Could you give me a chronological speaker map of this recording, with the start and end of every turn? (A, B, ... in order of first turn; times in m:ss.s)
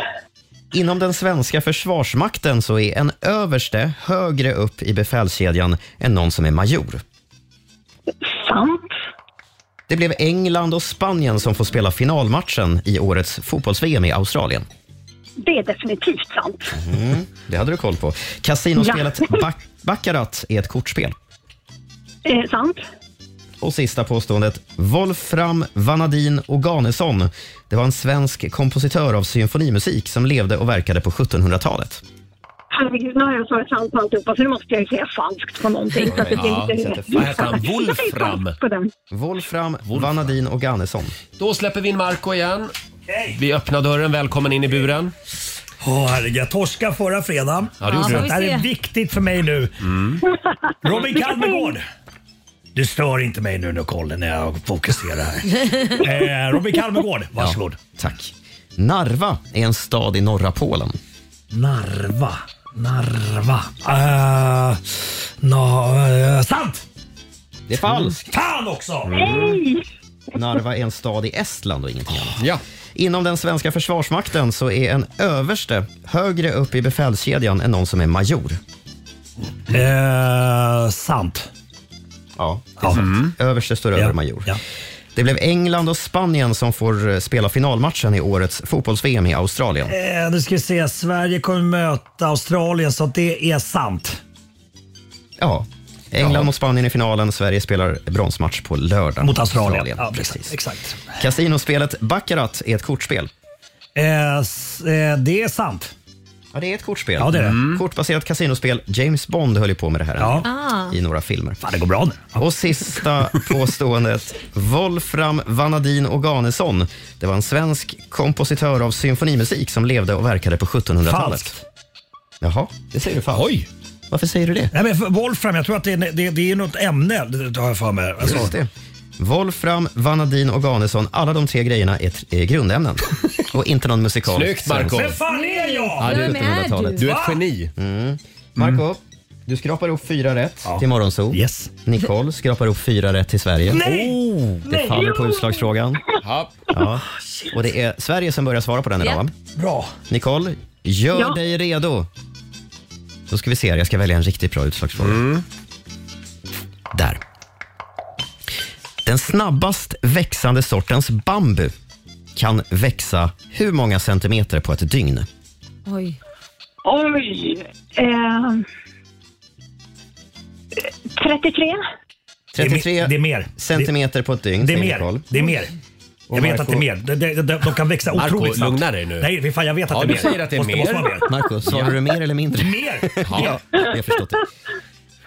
0:00.7-0:07.0 A
0:08.3-0:08.9 B
0:09.9-0:14.6 A
0:15.4-0:16.8 B
0:16.7-0:21.2 A
0:18.8-0:19.4 B
0:22.2-0:22.8 B
0:23.6-0:32.0 A
0:32.7-0:38.9 B
0:36.1-0:38.6 C
0:36.6-0:37.6 A
0:39.1-0:41.1 A
0:39.9-0:40.2 C
0:41.4-0:42.7 C
0:43.1-0:43.4 D
0:43.3-0:45.1 C
0:45.8-0:49.7 D
0:47.8-0:48.3 C
0:47.8-0:48.6 E
0:49.8-0:50.2 C
0:50.8-0:51.8 D
0:50.9-0:51.7 B
0:52.7-0:57.8 D
0:57.4-1:01.0 A
1:01.5-1:06.8 D
1:07.7-1:08.2 A
1:08.3-1:09.1 D
1:09.1-1:09.6 C
1:09.3-1:09.6 B
1:10.3-1:12.4 A
1:12.9-1:18.6 A
1:19.7-1:21.5 D
1:22.4-1:24.6 A
1:22.9-1:23.3 C
1:23.9-1:24.6 D
1:25.1-1:29.9 A
1:29.8-1:34.2 D
1:35.4-1:40.6 A
1:39.2-1:41.2 D
1:41.2-1:43.3 A
1:44.0-1:45.9 D
1:46.5-1:51.6 A
1:47.2-1:47.6 D
1:47.4-1:47.8 C
1:50.2-1:50.5 D
1:50.4-1:50.9 E
1:51.6-1:52.4 D
1:52.4-2:01.6 A
2:01.1-2:01.6 D
2:02.4-2:03.4 A
2:04.1-2:04.7 A
2:04.7-2:08.5 D
2:08.2-2:15.1 A
2:14.2-2:15.2 C
2:14.9-2:16.1 D
2:15.3-2:17.1 E
2:16.0-2:16.4 C
2:16.1-2:17.2 A
2:17.0-2:17.7 C
2:17.0-2:17.4 D
2:17.8-2:24.1 A
2:20.6-2:21.7 D
2:23.7-2:24.9 D
2:24.6-2:26.0 A
2:24.8-2:25.5 B
2:26.2-2:26.5 C
2:26.7-2:29.3 A
2:29.6-2:29.9 D
2:30.1-2:32.1 A
2:33.3-2:35.2 A
2:35.0-2:35.4 C
2:36.9-2:37.2 A
2:39.0-2:41.7 A
2:42.3-2:45.3 A
2:45.8-2:46.2 E
2:46.8-2:48.6 B
2:51.2-2:51.8 B
2:52.5-2:55.2 A
2:52.6-2:53.9 D
2:54.6-2:55.7 D
2:56.3-2:56.8 A
2:56.3-3:01.3 D
2:58.2-2:59.3 C
2:59.9-3:01.1 C
3:01.2-3:04.4 A
3:01.6-3:01.9 C
3:02.5-3:03.6 D
3:03.2-3:03.6 C